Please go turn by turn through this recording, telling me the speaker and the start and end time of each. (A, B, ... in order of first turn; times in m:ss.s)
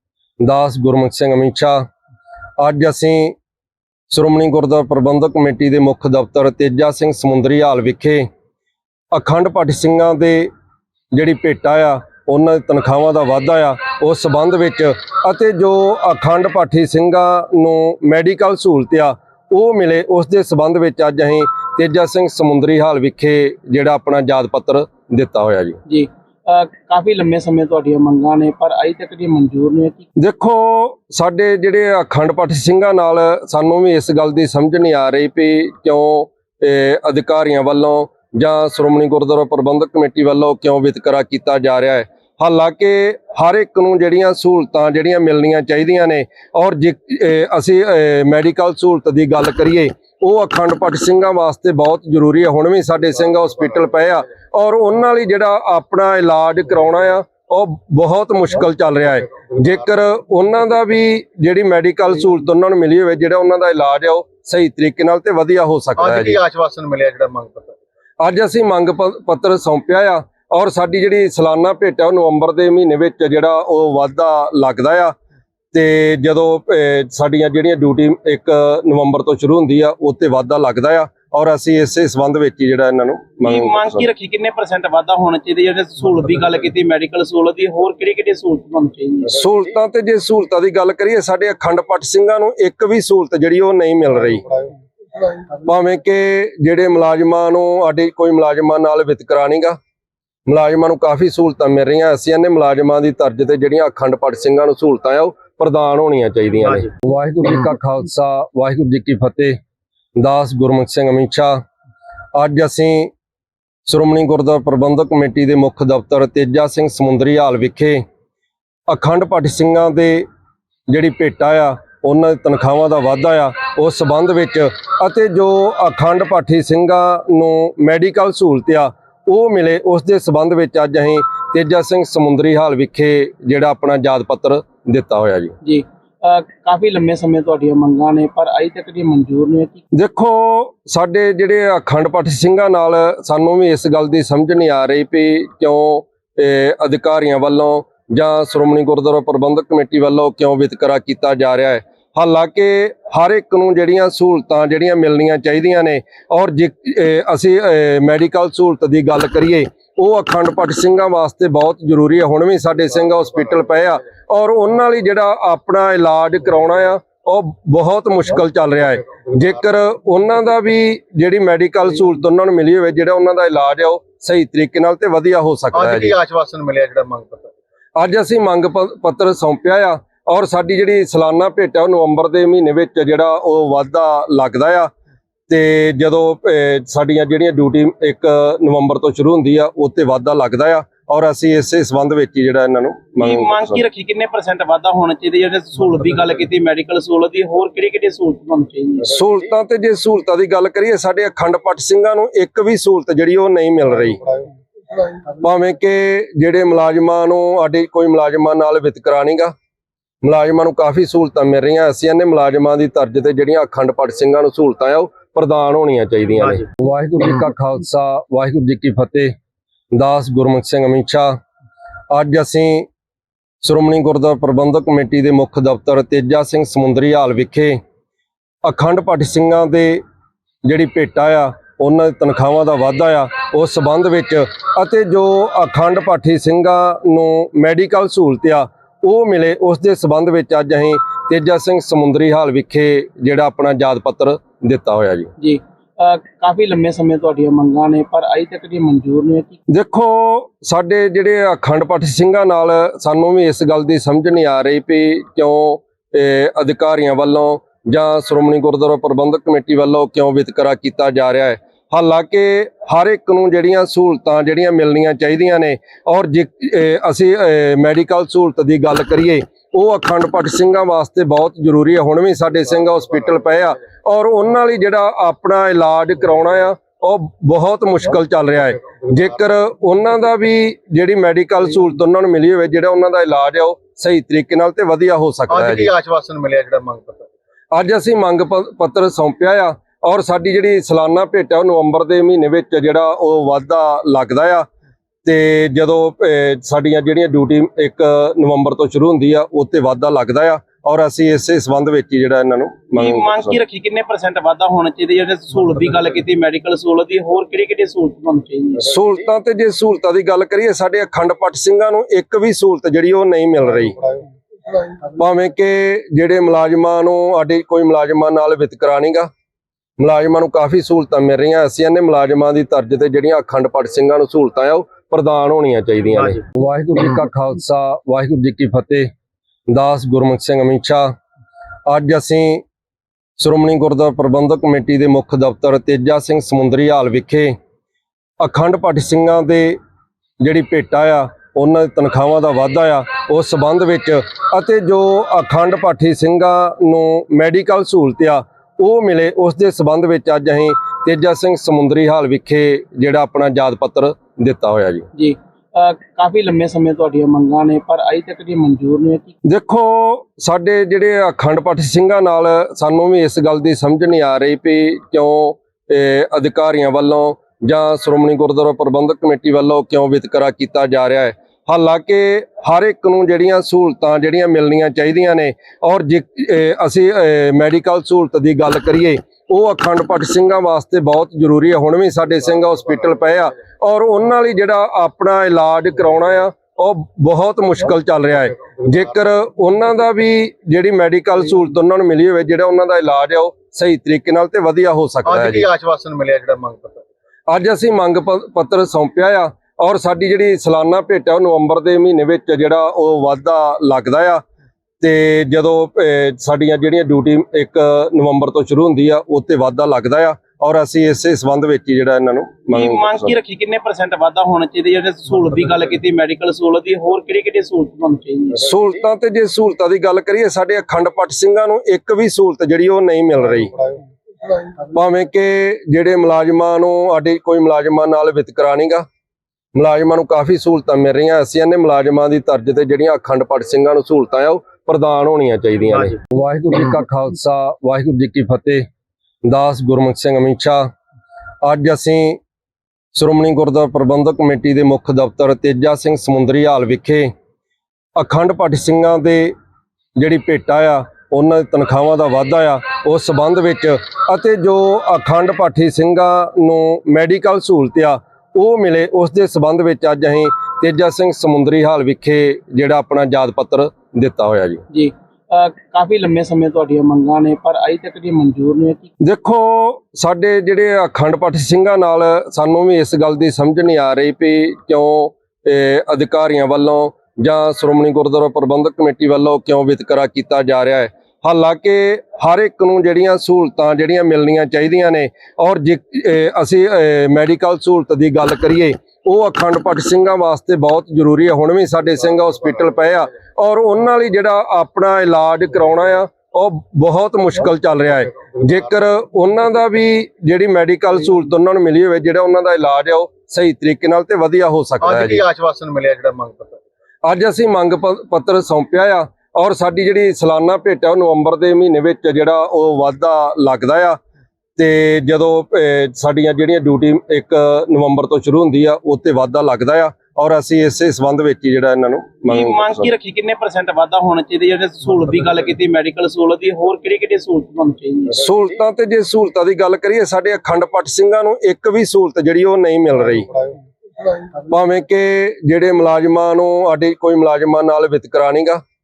0:00.4-0:01.8 A
0:02.6-0:03.4 A
0:04.1-0:08.3 A
0:09.1-0:10.5 A
0:11.1-0:25.8 A
0:25.8-0:30.0 B
0:30.2-1:06.4 A
1:06.1-1:07.7 C
1:08.2-1:15.1 A
1:15.7-1:24.0 A
1:23.4-1:29.3 B
1:29.3-1:34.4 A
1:35.6-1:39.8 A
1:40.5-1:49.6 A
1:50.2-1:51.6 A
1:52.3-1:53.1 A
1:53.8-1:58.0 A
1:58.9-2:00.2 A
2:00.9-2:15.6 A
2:15.6-2:19.8 B
2:19.9-2:56.2 A
2:55.9-2:57.5 C
2:58.0-3:04.9 A
3:05.5-3:13.7 A
3:13.2-3:19.1 B
3:19.0-3:24.2 A
3:25.4-3:29.5 A
3:30.2-3:39.3 A
3:39.9-3:41.4 A
3:42.1-3:42.9 A
3:43.6-3:47.8 A
3:48.6-3:50.0 A
3:50.6-4:05.3 A
4:05.4-4:09.6 B
4:09.7-4:45.9 A
4:45.6-4:47.2 C
4:47.7-4:54.6 A
4:55.2-5:03.6 A
5:02.9-5:08.9 B
5:08.8-5:14.0 A
5:15.1-5:19.3 A
5:20.0-5:29.1 A
5:29.7-5:31.1 A
5:31.9-5:32.6 A
5:33.4-5:37.6 A
5:38.4-5:39.8 A
5:40.4-5:55.1 A
5:55.1-5:59.3 B
5:59.4-6:35.7 A
6:35.3-6:37.0 C
6:37.5-6:44.4 A
6:45.0-6:53.3 A
6:52.7-6:58.6 B
6:58.6-7:03.7 A
7:04.9-7:09.0 A
7:09.7-7:18.8 A
7:19.4-7:20.9 A
7:21.6-7:22.4 A
7:23.1-7:27.3 A
7:28.2-7:29.5 A
7:30.2-7:44.8 A
7:44.9-7:49.1 B
7:49.2-8:25.5 A
8:25.1-8:26.8 C
8:27.2-8:34.2 A
8:34.8-8:43.1 A
8:42.5-8:48.4 B
8:48.3-8:53.5 A
8:54.7-8:58.8 A